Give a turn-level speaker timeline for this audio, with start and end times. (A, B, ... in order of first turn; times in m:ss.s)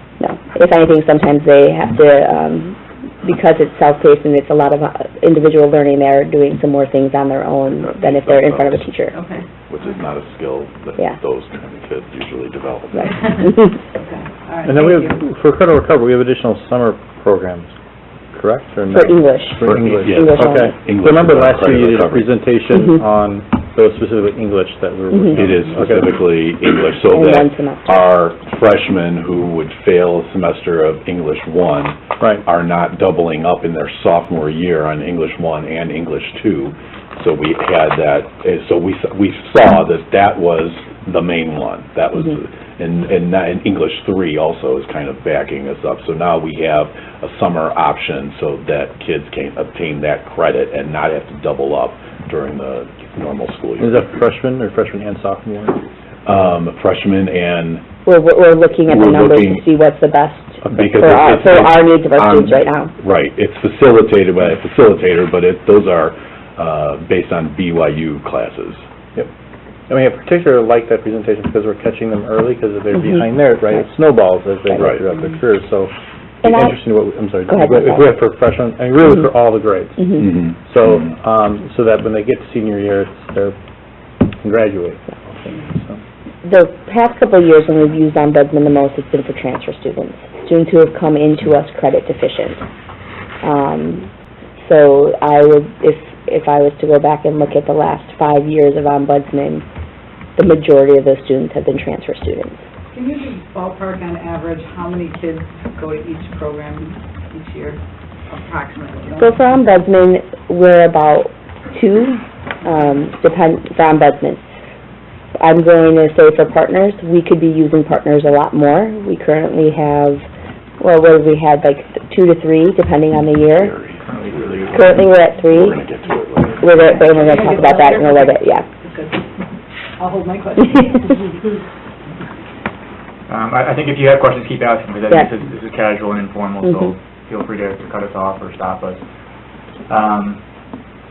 0:00.2-0:09.1 A
0:07.8-0:08.9 B
0:09.1-0:09.4 C
0:09.7-0:13.3 B
0:13.0-0:13.8 A
0:14.0-0:15.2 C
0:14.6-0:17.7 D
0:18.3-0:26.1 D
0:18.9-0:20.7 A
0:19.6-0:22.3 B
0:22.7-0:23.0 A
0:25.1-0:25.4 A
0:25.3-0:54.0 B
0:27.1-0:28.1 A
0:53.8-0:55.8 D
0:56.2-0:57.8 B
0:58.0-1:02.9 A
0:58.9-0:59.6 B
1:00.7-1:08.8 B
1:09.9-1:23.6 D
1:14.8-1:15.0 B
1:16.4-1:16.8 A
1:17.5-1:18.1 A
1:24.2-1:26.0 D
1:26.4-1:32.6 A
1:33.4-1:39.6 A
1:40.4-1:42.6 A
1:42.9-1:49.6 C
1:49.2-1:54.5 A
1:55.4-2:00.2 A
2:00.8-2:03.7 A
2:03.5-2:07.8 B
2:04.0-2:04.8 E
2:04.7-2:05.8 A
2:06.6-2:08.6 A
2:06.8-2:09.2 C
2:10.0-2:11.2 C
2:13.3-2:19.0 E
2:19.9-2:20.4 E